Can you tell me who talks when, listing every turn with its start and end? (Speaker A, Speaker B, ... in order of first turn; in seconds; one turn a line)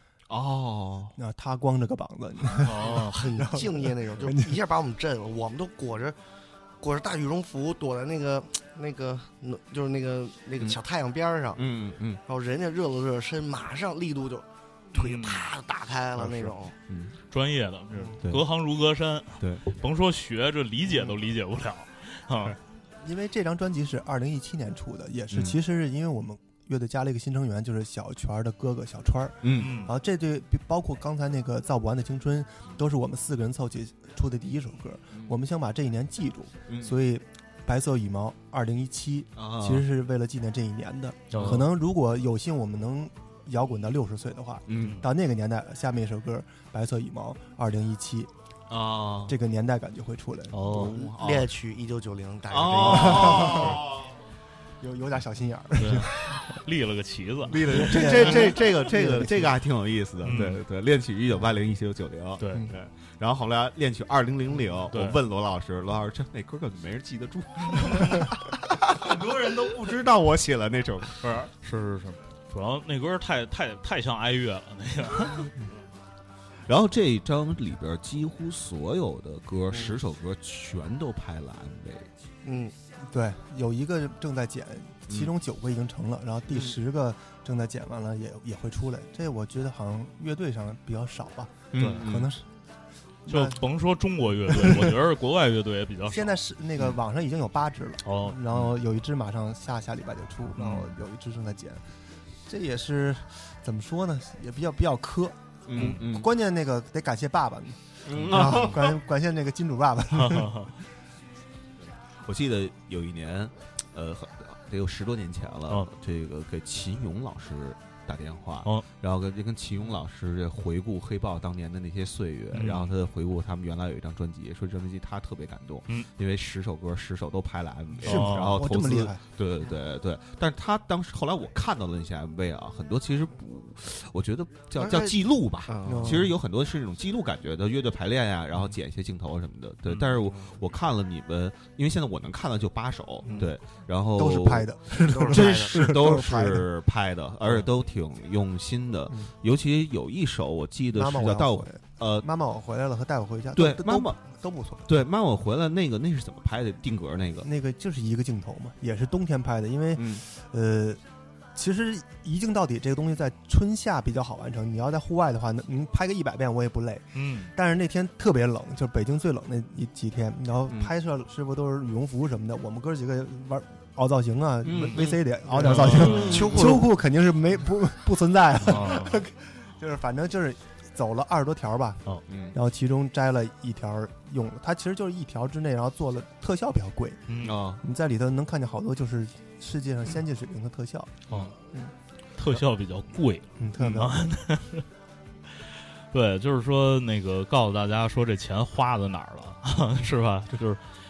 Speaker A: 0.3-1.1
Speaker B: 1.2-4.6
Speaker C: 2.5-3.2
Speaker D: 2.8-6.2
Speaker D: 6.8-11.6
Speaker A: 11.6-12.2
Speaker D: 12.2-16.7
Speaker C: 14.9-15.5
Speaker A: 16.2-17.1
Speaker C: 17.3-22.6
Speaker B: 23.0-48.3
Speaker A: 25.3-25.6
Speaker A: 29.4-29.7
Speaker C: 29.6-29.9
Speaker A: 36.7-37.0
Speaker A: 39.4-39.9
Speaker C: 41.3-41.7
Speaker A: 41.4-41.6
Speaker A: 44.7-45.0
Speaker C: 44.8-45.1
Speaker A: 48.7-49.4
Speaker B: 49.2-50.6
Speaker C: 50.5-51.0
Speaker A: 50.6-51.5
Speaker D: 50.7-53.7
Speaker A: 52.5-54.1
Speaker B: 52.8-53.8
Speaker B: 54.8-56.5
Speaker C: 55.8-58.5
Speaker A: 57.4-71.1
Speaker B: 57.7-59.6
Speaker C: 60.2-60.6
Speaker C: 62.4-62.7
Speaker C: 64.9-65.2
Speaker C: 71.2-75.5
Speaker A: 76.7-82.1
Speaker D: 82.4-82.7
Speaker B: 83.1-92.5
Speaker A: 85.1-85.3
Speaker A: 86.5-86.7
Speaker A: 91.7-92.3
Speaker C: 91.8-92.0
Speaker B: 93.3-93.6
Speaker C: 93.3-96.4
Speaker B: 94.5-95.0
Speaker B: 96.1-101.8
Speaker C: 98.0-98.4
Speaker C: 100.6-100.9
Speaker B: 102.5-110.7
Speaker A: 105.7-106.3
Speaker A: 108.0-109.0
Speaker C: 108.2-108.7
Speaker C: 110.2-110.7
Speaker A: 112.2-144.7
Speaker C: 122.5-122.9
Speaker B: 128.0-129.2
Speaker C: 128.0-128.6
Speaker D: 134.8-136.2
Speaker B: 135.8-136.3
Speaker C: 139.9-140.1
Speaker B: 144.1-146.7
Speaker D: 145.1-145.8
Speaker A: 145.2-152.3
Speaker B: 150.9-154.9
Speaker A: 153.5-154.2
Speaker A: 154.8-157.5
Speaker B: 157.4-161.0
Speaker A: 159.9-160.2
Speaker B: 161.5-187.2
Speaker C: 167.1-167.5
Speaker A: 170.7-170.9
Speaker A: 174.6-176.8
Speaker C: 174.7-176.5
Speaker D: 176.2-176.9
Speaker C: 178.6-179.2
Speaker A: 182.3-182.6
Speaker C: 187.3-187.6
Speaker A: 187.4-187.8
Speaker B: 187.8-191.1
Speaker C: 192.4-194.8
Speaker B: 193.6-194.2
Speaker C: 196.1-200.8